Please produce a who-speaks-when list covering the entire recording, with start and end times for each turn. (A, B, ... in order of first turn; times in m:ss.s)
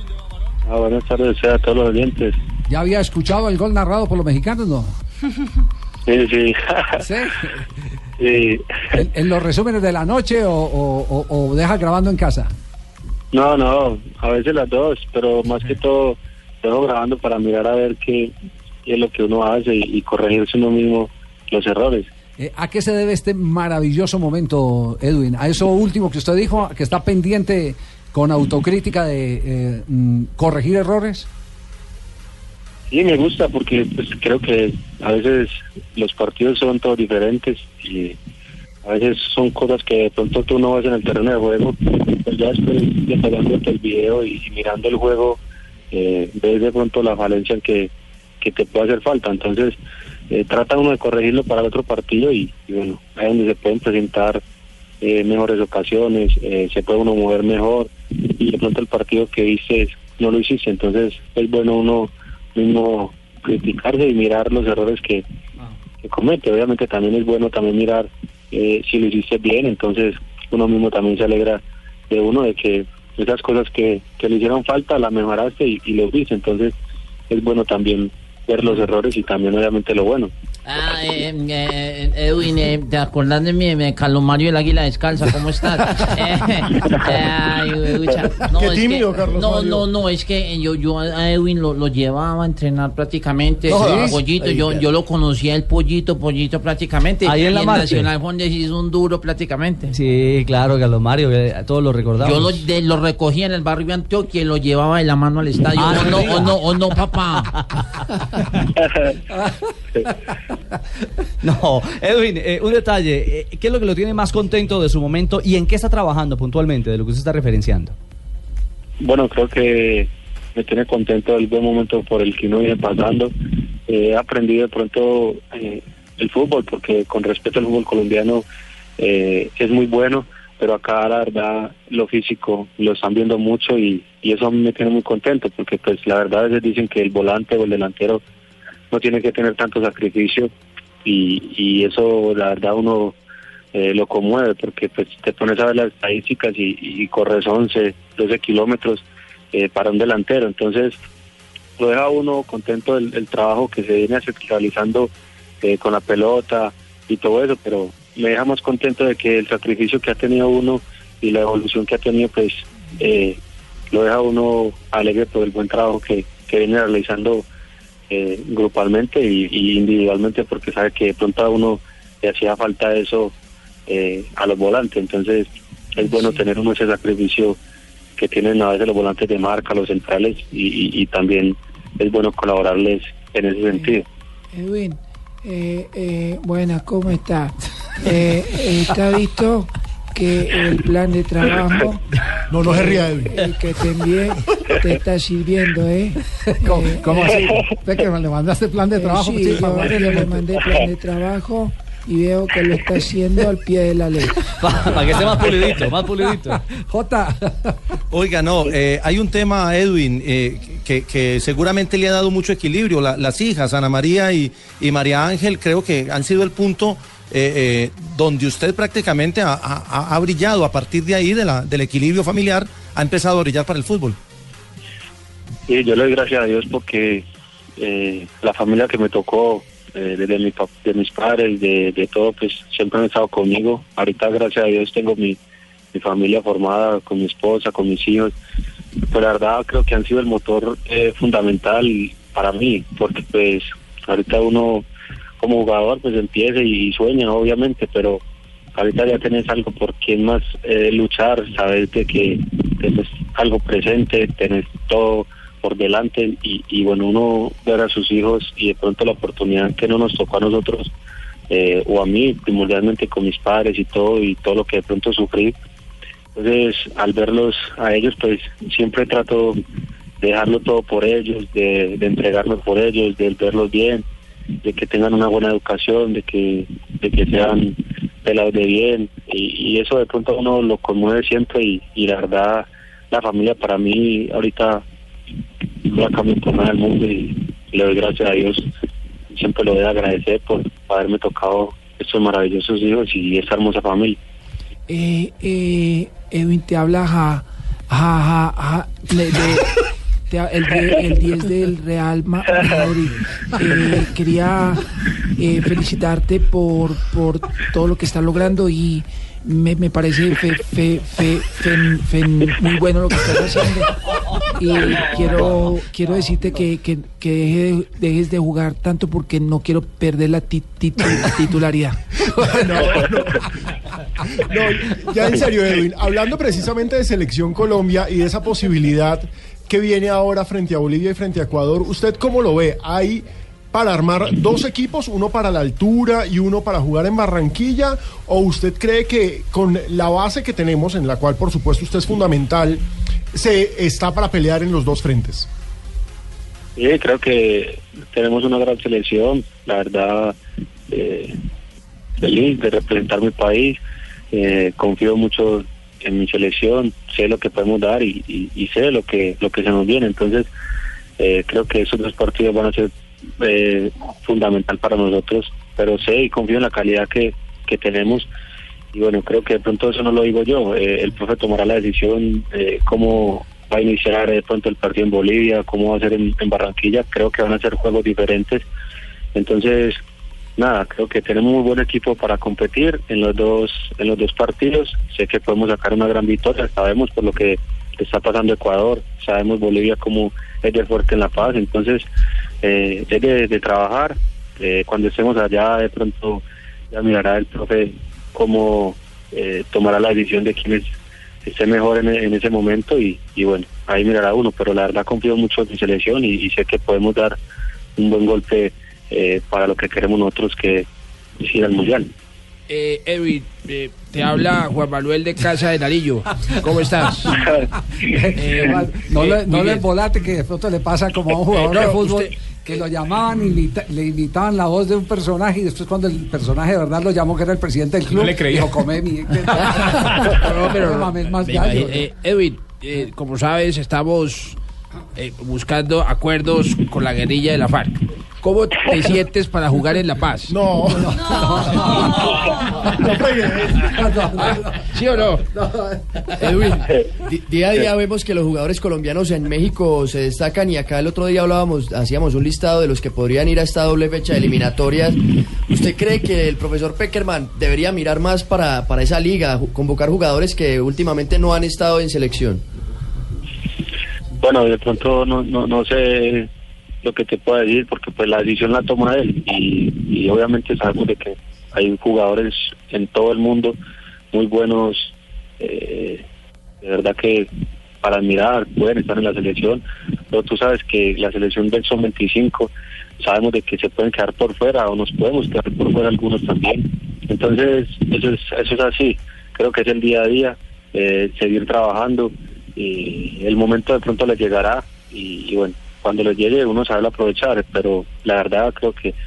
0:00.6-0:02.3 A
0:02.7-0:04.9 B
0:06.0-0:07.0 A
0:07.0-0:07.7 B
0:08.2-0:08.6 A
0:08.9-0:12.5 B
0:13.3-0:18.3 A
0:18.8-0:22.1 A
0:22.4-0:31.3 B
0:32.9-0:38.2 A
0:38.8-0:45.4 A
0:45.9-0:49.8 A
0:50.3-0:54.4 A
0:55.0-1:05.2 A
1:06.0-1:16.7 A
1:17.3-1:20.3 A
1:20.6-1:40.0 C
1:28.5-1:29.9 D
1:33.7-1:34.2 B
1:33.8-1:34.9 E
1:37.2-1:38.1 F
1:39.9-1:42.6 F
1:42.2-1:47.5 C
1:45.7-1:46.6 F
1:48.9-1:49.1 A
1:51.4-1:57.9 F
1:59.0-2:03.3 A
2:03.9-2:08.4 A
2:09.0-2:18.2 A
2:18.9-2:20.5 A
2:21.0-2:23.2 A
2:23.7-2:31.0 A
2:31.8-2:35.1 A
2:35.6-2:43.4 A
2:43.9-2:47.4 A
2:48.1-2:53.3 A
2:53.9-2:57.6 A
2:56.0-2:56.4 G
2:58.2-3:04.0 A
3:03.7-3:04.0 G
3:04.5-3:12.0 G
3:12.3-3:13.3 D
3:12.6-3:17.4 G
3:16.4-3:20.4 B
3:18.9-3:24.3 G
3:24.6-3:26.6 F
3:24.9-3:27.8 B
3:28.1-3:44.2 H
3:45.7-3:47.2 A
3:47.8-3:55.4 A
3:55.9-3:58.3 A
3:59.1-4:04.8 A
4:05.4-4:08.2 A
4:08.7-4:20.9 A
4:21.5-4:25.5 A
4:26.3-4:29.6 A
4:30.2-4:34.0 A
4:34.6-4:44.8 A
4:45.8-4:48.7 A
4:49.3-4:54.2 A
4:54.9-5:13.9 G
5:14.6-5:22.7 G
5:22.5-5:23.5 D
5:24.3-5:42.8 D
5:43.3-5:45.5 D
5:46.8-5:50.3 A
5:50.9-5:51.3 A
5:52.2-5:53.8 A
5:54.3-6:00.5 A
6:01.2-6:02.9 A
6:03.4-6:08.3 A
6:08.9-6:18.6 A
6:19.3-6:20.0 A
6:20.6-6:32.0 A
6:32.6-6:40.8 A
6:41.4-6:47.4 A
6:48.0-6:50.9 A
6:51.4-6:52.1 A
6:52.7-6:57.3 I
6:57.3-6:57.6 A
6:58.1-7:12.1 B
6:58.4-6:59.8 I
7:01.7-7:02.3 I
7:08.1-7:08.7 H
7:10.2-7:14.6 I
7:15.2-7:20.5 I
7:20.5-7:21.2 D
7:21.0-7:22.1 B
7:22.8-7:23.9 D
7:23.8-7:24.8 B
7:24.9-7:25.4 I
7:25.6-7:26.0 B
7:26.4-7:42.6 E
7:44.4-7:46.5 A
7:47.0-7:53.7 A
7:54.3-7:56.2 A
7:56.8-7:57.5 A
7:58.0-8:19.1 A